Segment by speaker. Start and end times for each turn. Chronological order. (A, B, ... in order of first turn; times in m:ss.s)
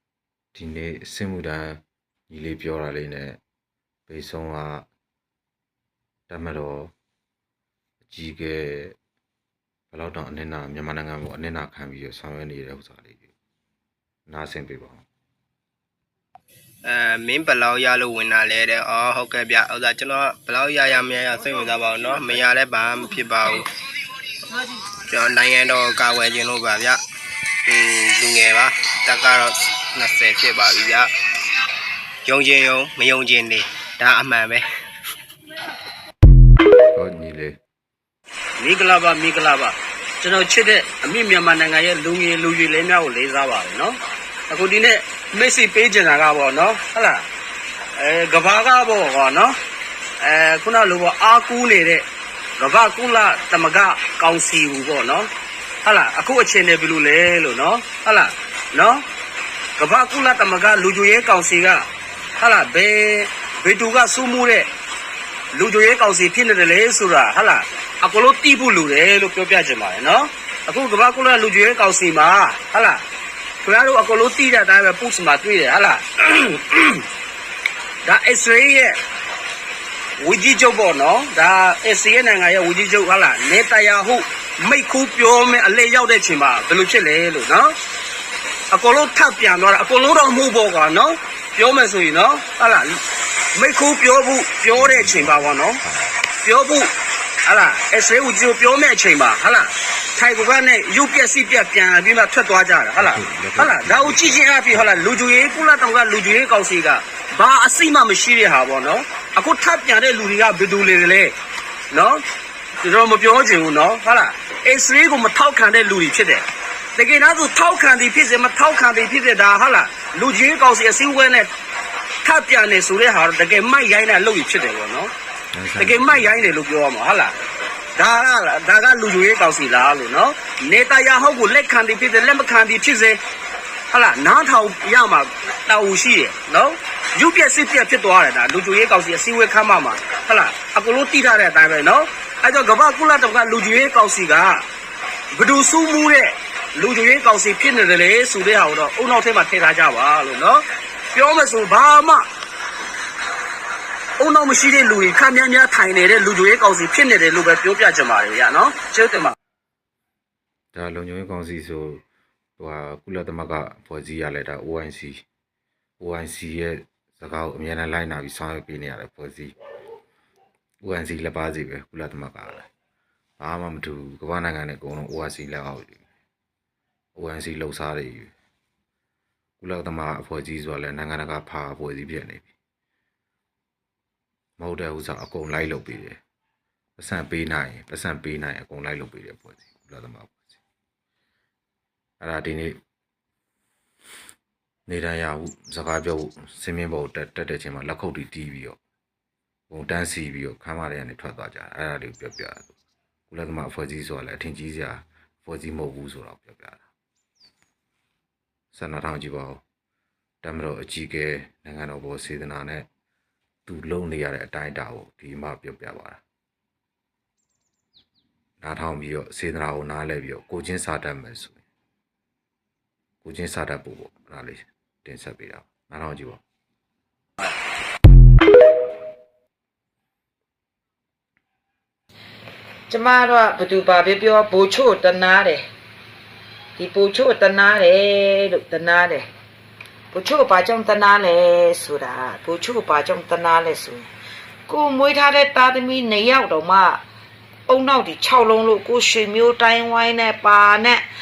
0:00.5-0:03.4 A
0:04.1-0:04.8 A
0:06.3-0:06.9 A
0:08.1-0:09.0 A
0:09.9-0:13.3 A
0:14.3-0:15.0 A
0:16.8-0:23.7 B
0:25.1-0:27.0 B
0:27.6-0:31.1 B
0:32.2-0:34.6 B
0:36.9-0:37.6 A
0:38.6-0:44.0 C
0:44.5-0:47.2 C
0:48.0-0:49.6 C
0:50.2-0:52.0 C
0:52.6-0:55.3 C
0:55.8-0:59.0 C
0:59.8-1:01.8 C
1:02.4-1:04.7 C
1:05.5-1:13.0 C
1:13.6-1:17.0 C
1:18.0-1:19.0 C
1:20.2-1:27.8 C
1:28.7-1:33.0 C
1:33.5-1:35.8 C
1:34.7-1:36.3 A
1:36.4-1:36.9 C
1:37.4-1:51.3 C
1:43.0-1:45.2 A
1:51.9-1:52.2 C
1:52.8-1:56.4 C
1:57.0-2:01.5 C
2:02.2-2:05.1 C
2:05.5-2:06.5 A
2:05.8-2:07.3 C
2:08.0-2:13.2 C
2:13.9-2:24.6 C
2:25.3-2:32.2 C
2:34.2-2:39.3 C
2:40.7-2:42.0 A
2:42.6-2:45.2 A
2:46.0-2:49.5 A
2:50.8-2:52.7 A
2:53.4-2:56.0 A
2:57.2-2:58.3 A
2:59.6-3:02.5 A
3:04.6-3:06.2 A
3:07.0-3:10.6 A
3:12.2-3:12.8 A
3:14.9-3:18.8 A
3:19.7-3:22.7 A
3:23.3-3:26.9 A
3:28.7-3:29.6 A
3:30.4-3:32.9 A
3:33.6-3:36.2 A
3:38.6-3:41.6 A
3:43.2-3:46.4 A
3:52.9-3:55.6 D
3:56.8-3:59.2 D
4:00.1-4:04.1 D
4:04.7-4:07.0 D
4:07.7-4:11.0 D